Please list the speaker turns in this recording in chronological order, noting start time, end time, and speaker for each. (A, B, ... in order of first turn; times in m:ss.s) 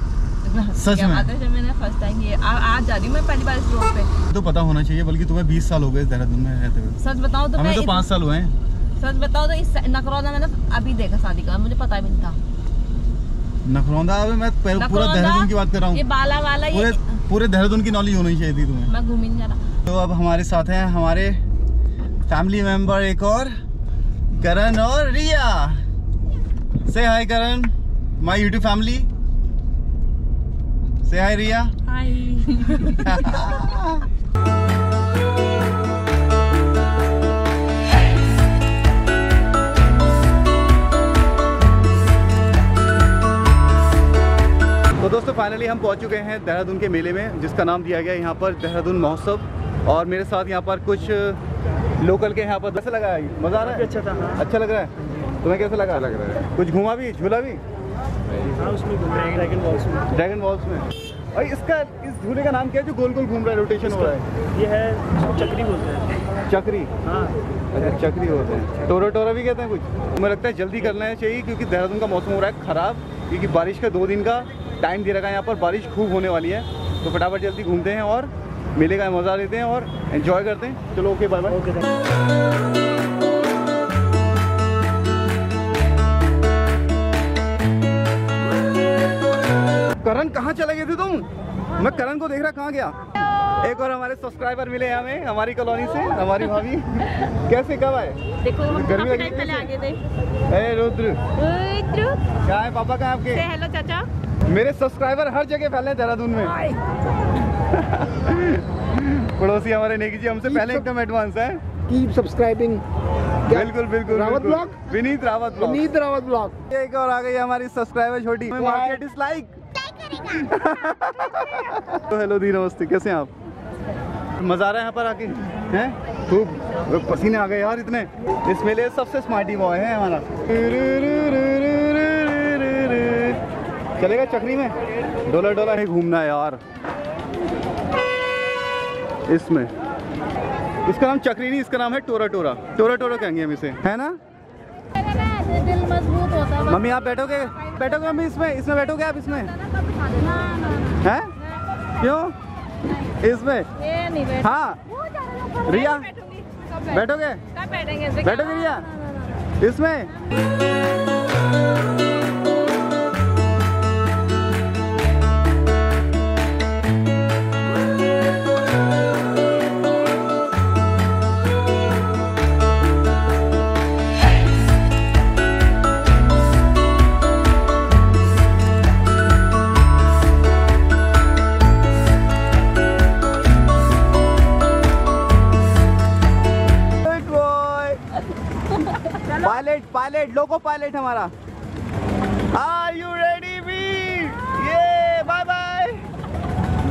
0:00.4-0:04.1 A
0:00.8-0:01.3 B
0:04.3-0:07.0 B
0:07.0-0:08.1 A
0:07.6-0:08.5 B
0:09.0-0:12.4 A
0:13.6-0:16.0 B
0:14.8-0:17.0 A
0:16.7-0:18.9 B
0:18.9-0:19.6 A
0:19.9-0:21.4 B
0:22.3-0:23.5 B
0:24.3-0:25.8 B
0:26.9-0:29.1 B
0:31.0-0:31.7 B
0:32.0-0:33.0 A
0:32.8-0:34.1 B
0:45.0-0:51.4 B
0:52.0-0:57.6 B
0:58.8-1:00.0 C
1:00.1-1:04.3 B
1:04.6-1:06.1 C
1:06.5-1:06.9 B
1:07.7-1:21.6 B
1:30.0-1:33.0 B
1:33.6-1:39.7 B
1:38.4-1:40.0 A
1:40.5-1:41.2 B
1:41.4-1:42.2 A
1:42.4-1:43.5 B
1:43.3-1:44.1 A
1:44.5-1:46.6 B
1:47.7-1:51.6 B
1:50.5-1:50.8 D
1:51.9-1:52.8 D
1:53.5-1:56.0 B
1:53.5-1:54.7 D
1:55.6-1:56.5 D
1:56.7-1:59.5 B
1:58.6-1:59.0 D
2:00.1-2:03.3 B
2:04.4-2:13.4 B
2:14.0-2:14.7 B
2:15.2-2:16.6 B
2:19.3-2:19.7 B
2:20.9-2:24.2 B
2:25.0-2:26.4 A
2:26.6-2:29.6 B
2:30.0-2:30.9 A
2:31.0-2:31.3 B
2:32.0-2:32.4 B
2:32.9-2:33.7 B
2:33.8-2:36.9 A
2:34.4-2:34.8 B
2:35.6-2:36.1 B
2:36.9-2:37.4 B
2:37.5-2:39.3 A
2:38.2-2:38.9 B
2:39.6-2:40.2 B
3:07.0-3:08.0 B
3:09.3-3:11.3 B
3:12.5-3:16.0 B